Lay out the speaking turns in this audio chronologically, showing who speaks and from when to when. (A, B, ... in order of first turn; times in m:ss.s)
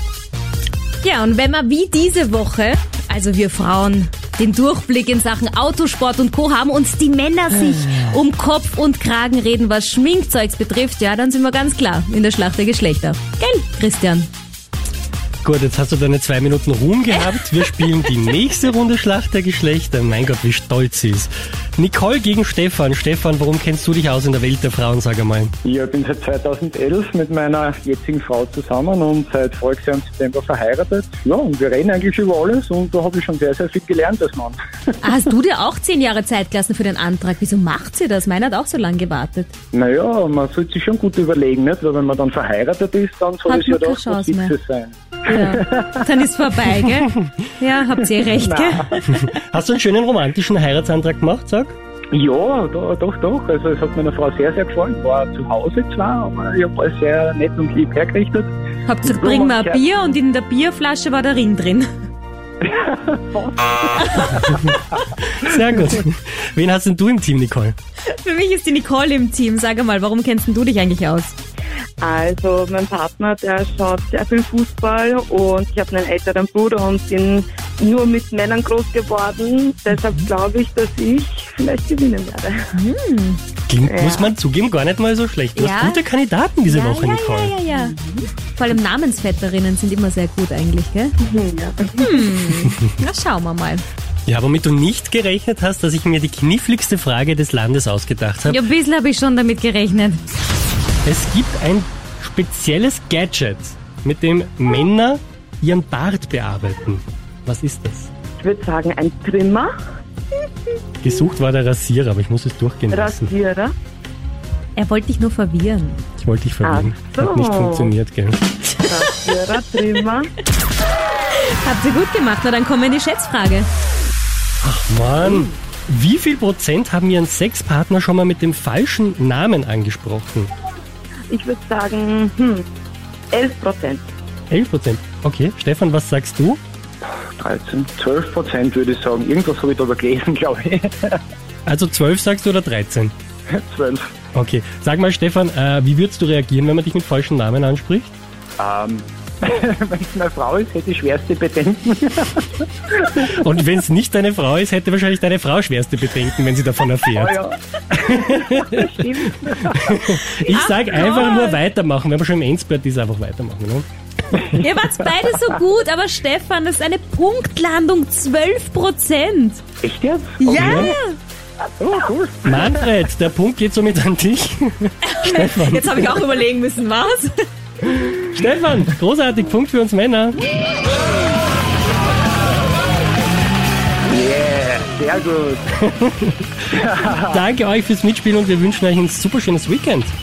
0:01.0-0:14.3 A
0:15.4-0:25.5 B
0:25.6-0:34.6 C
0:35.0-0:39.5 A
0:39.7-0:46.1 C
0:43.5-0:44.6 A
0:45.2-0:49.2 A
0:48.2-0:49.0 C
0:49.1-0:51.8 B
0:52.1-0:58.5 C
0:58.9-1:01.9 A
0:59.0-0:59.8 C
1:02.6-1:04.8 C
1:04.4-1:07.8 B
1:08.1-1:11.4 A
1:12.0-1:22.7 D
1:22.7-1:23.4 A
1:23.7-1:27.6 B
1:23.8-1:24.3 D
1:25.6-1:26.0 A
1:26.7-1:28.0 A
1:27.9-1:28.2 D
1:28.6-1:31.1 A
1:31.2-1:32.2 D
1:32.0-1:33.8 A
1:34.3-1:38.6 B
1:38.5-1:40.2 A
1:41.0-1:48.1 B
1:48.4-1:49.7 D
1:51.0-1:53.3 B
1:52.9-1:53.7 D
1:54.8-1:56.0 A
1:56.2-1:58.4 B
1:56.6-1:57.9 D
1:58.8-2:00.3 D
2:01.4-2:03.7 A
2:04.6-2:10.5 B
2:11.3-2:12.6 D
2:13.3-2:14.0 D
2:14.5-2:16.6 B
2:17.3-2:21.2 C
2:21.7-2:23.1 B
2:23.5-2:24.1 C
2:24.4-2:28.2 B
2:28.6-2:33.2 C
2:33.0-2:37.4 B
2:37.1-2:40.2 C
2:38.0-2:39.0 B
2:39.7-2:43.9 B
2:40.4-2:41.6 A
2:44.4-2:49.6 A
2:49.8-2:51.0 C
2:50.4-2:51.2 A
2:50.5-2:50.9 B
2:51.8-2:53.0 C
2:52.4-2:56.2 B
2:55.0-2:57.3 A
2:58.1-3:00.4 B
3:04.1-3:05.6 C
3:05.8-3:06.6 B
3:06.7-3:07.4 C
3:07.1-3:10.1 B